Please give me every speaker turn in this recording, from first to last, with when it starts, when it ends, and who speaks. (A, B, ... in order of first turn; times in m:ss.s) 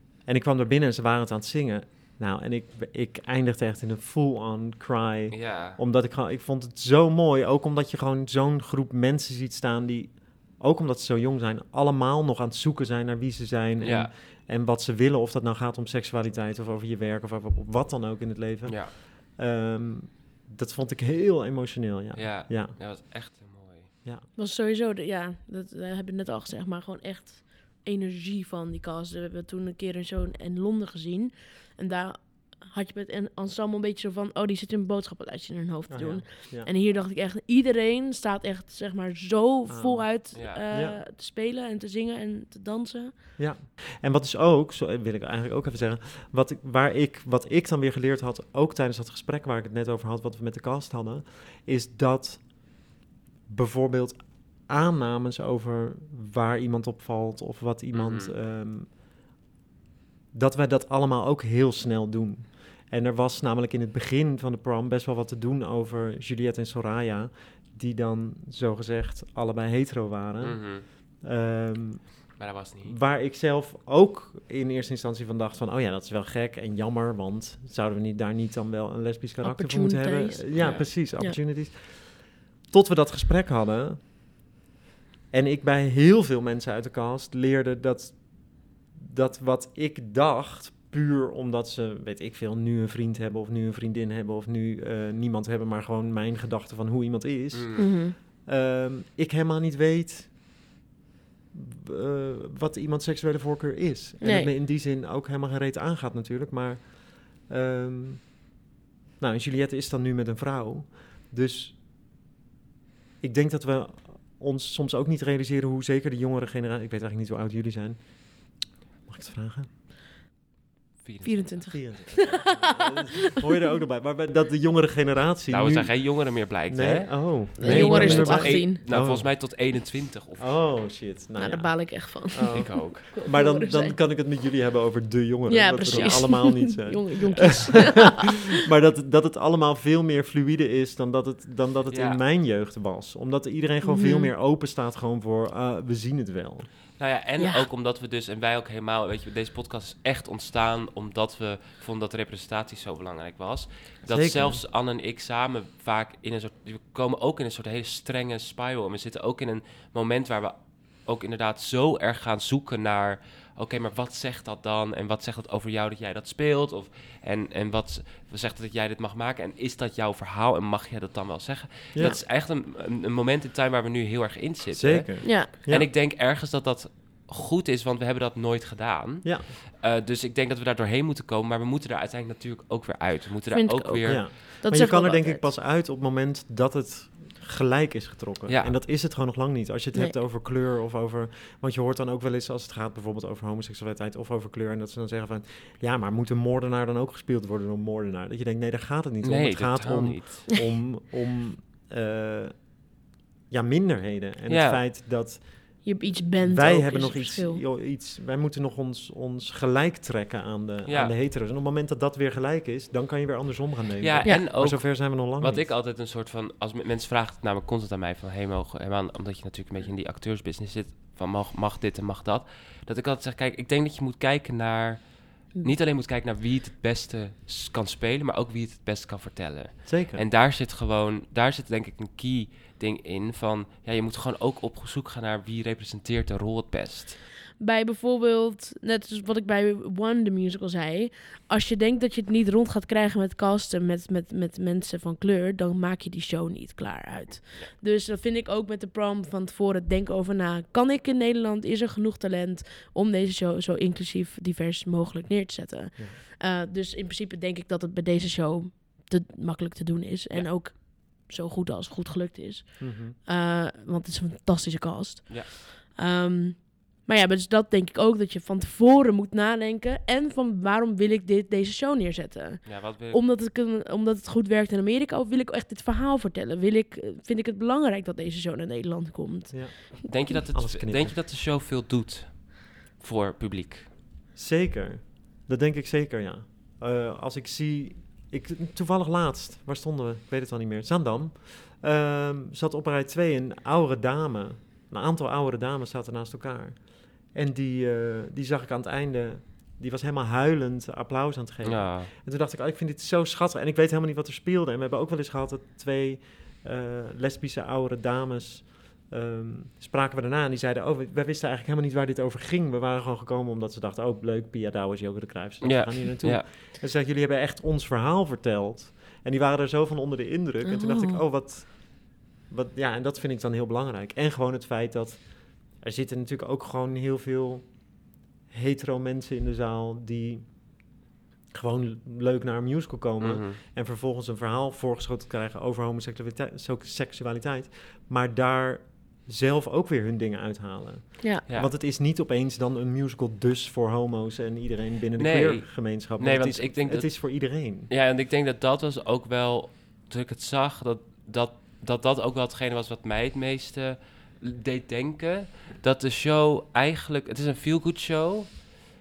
0:00.2-0:22.8 A
0:05.3-0:05.8 B
0:13.8-0:14.1 B
0:18.6-0:18.9 B
0:22.2-0:23.9 B
0:24.4-0:43.2 C
0:35.9-0:36.7 A
0:39.7-0:41.0 A
0:40.3-0:40.6 B
0:43.4-0:52.5 A
0:53.5-0:58.9 A
0:57.9-0:58.3 B
1:00.3-1:12.3 A
1:10.4-1:10.8 B
1:12.4-1:13.0 B
1:12.8-1:24.0 A
1:19.4-1:20.5 C
1:20.6-1:20.9 B
1:25.3-1:40.3 A
1:37.5-1:37.9 B
1:37.8-1:38.1 C
1:41.5-1:48.4 A
1:44.2-1:44.5 C
1:49.2-1:51.8 A
1:53.2-1:58.1 A
1:59.1-1:59.7 A
2:01.0-2:02.4 B
2:01.2-2:02.5 C
2:01.7-2:09.4 A
2:05.5-2:10.5 B
2:07.6-2:08.8 C
2:10.4-2:26.7 A
2:11.4-2:14.0 C
2:12.5-2:13.1 B
2:15.5-2:18.4 C
2:15.9-2:16.2 B
2:21.9-2:22.2 B
2:23.8-2:24.3 C
2:27.0-3:04.3 B
2:27.4-2:27.6 C
2:34.1-2:34.6 A
2:51.9-2:52.2 A
2:54.7-2:55.9 A
2:55.2-2:55.5 C
2:59.2-2:59.5 A
3:03.5-3:05.5 C
3:04.0-3:22.7 A
3:08.5-3:08.8 B
3:19.2-3:20.5 B
3:23.5-3:25.8 A
3:24.5-3:24.8 B
3:25.8-3:27.6 C
3:26.4-3:35.7 A
3:30.9-3:31.1 B
3:34.0-3:57.2 B
3:49.8-3:50.2 A
3:57.6-4:39.9 C
4:22.8-4:23.2 A
4:32.6-4:33.2 B
4:39.5-4:41.2 A
4:40.1-4:43.9 B
4:44.3-5:27.9 A
5:01.6-5:02.1 B
5:15.6-5:16.4 B
5:20.6-5:21.2 C
5:28.5-5:30.6 A
5:31.5-5:47.9 A
5:33.2-5:33.6 B
5:45.2-5:58.6 B